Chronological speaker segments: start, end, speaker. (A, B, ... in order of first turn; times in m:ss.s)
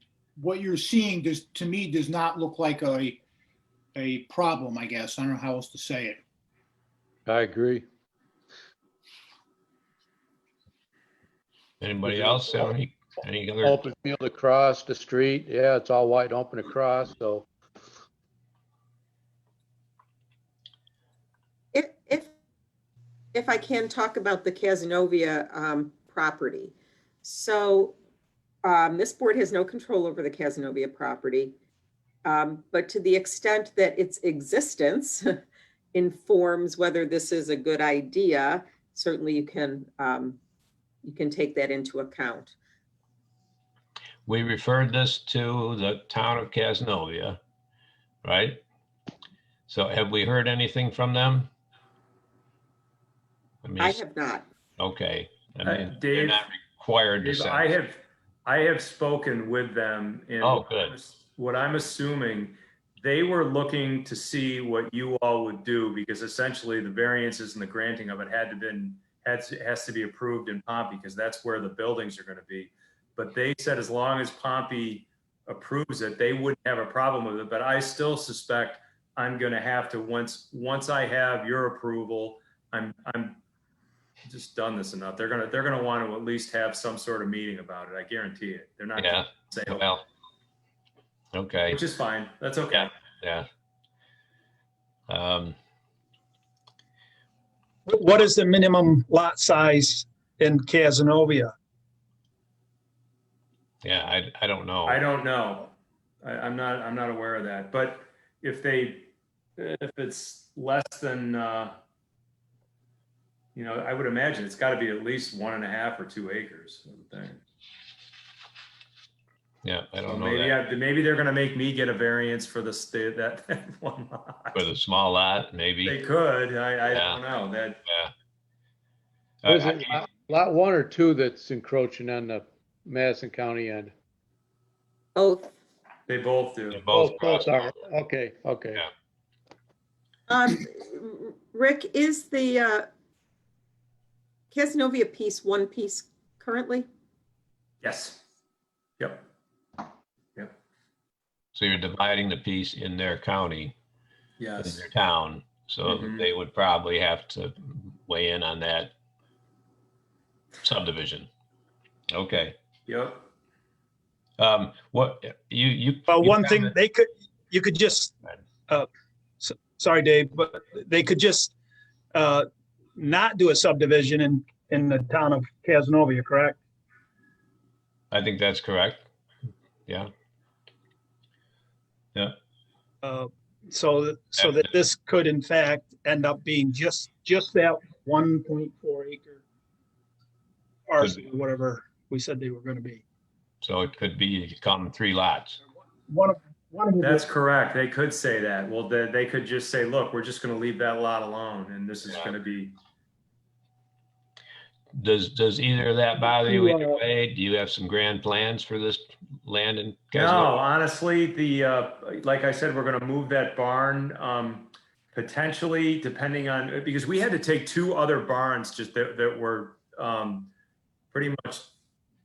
0:00.4-0:03.2 A
0:04.0-0:06.2 A
0:07.3-0:07.8 B
0:11.8-0:13.8 C
0:12.0-0:12.6 B
0:13.6-0:17.5 B
0:21.7-0:22.3 D
0:23.3-0:28.0 D
0:28.6-0:31.6 D
0:32.2-0:35.3 D
0:35.9-0:40.4 D
0:41.0-0:42.6 D
0:44.3-0:47.4 C
0:48.2-0:48.6 C
0:49.7-0:51.5 C
0:53.6-0:54.0 C
0:53.8-0:54.5 D
0:54.8-0:57.7 C
0:55.6-0:56.4 E
0:57.2-1:23.4 E
1:00.4-1:01.0 C
1:24.3-1:29.9 E
1:29.0-1:30.0 C
1:31.3-1:31.8 C
1:31.7-1:32.9 E
1:32.7-1:33.5 C
1:35.1-1:35.6 C
1:37.9-1:41.5 F
1:43.8-1:45.0 C
1:44.9-1:51.8 E
1:53.6-1:57.4 E
1:59.6-2:00.6 C
2:00.0-2:04.6 E
2:04.6-2:06.0 C
2:05.8-2:07.8 E
2:06.9-2:07.2 C
2:07.9-2:08.1 C
2:09.4-2:09.9 C
2:09.5-2:13.9 B
2:15.2-2:15.5 D
2:16.1-2:16.8 E
2:16.7-2:17.7 C
2:16.9-2:18.8 B
2:20.3-2:22.9 D
2:24.5-2:26.9 D
2:27.8-2:28.2 E
2:29.0-2:29.3 E
2:31.6-2:33.8 C
2:34.4-2:34.8 E
2:34.6-2:38.9 C
2:35.9-2:36.3 E
2:40.6-2:41.3 C
2:42.1-2:42.6 C
2:42.9-2:43.3 E
2:44.4-2:46.7 C
2:46.1-2:48.2 F
2:49.4-2:51.5 F
2:52.1-2:56.6 F
2:58.1-2:59.1 C
3:03.0-3:09.4 F
3:10.9-3:13.0 F
3:13.6-3:15.6 C
3:16.1-3:17.2 F
3:17.0-3:22.8 E
3:25.0-3:30.6 C
3:26.2-3:27.0 F
3:30.2-3:40.5 E
3:41.1-3:41.7 E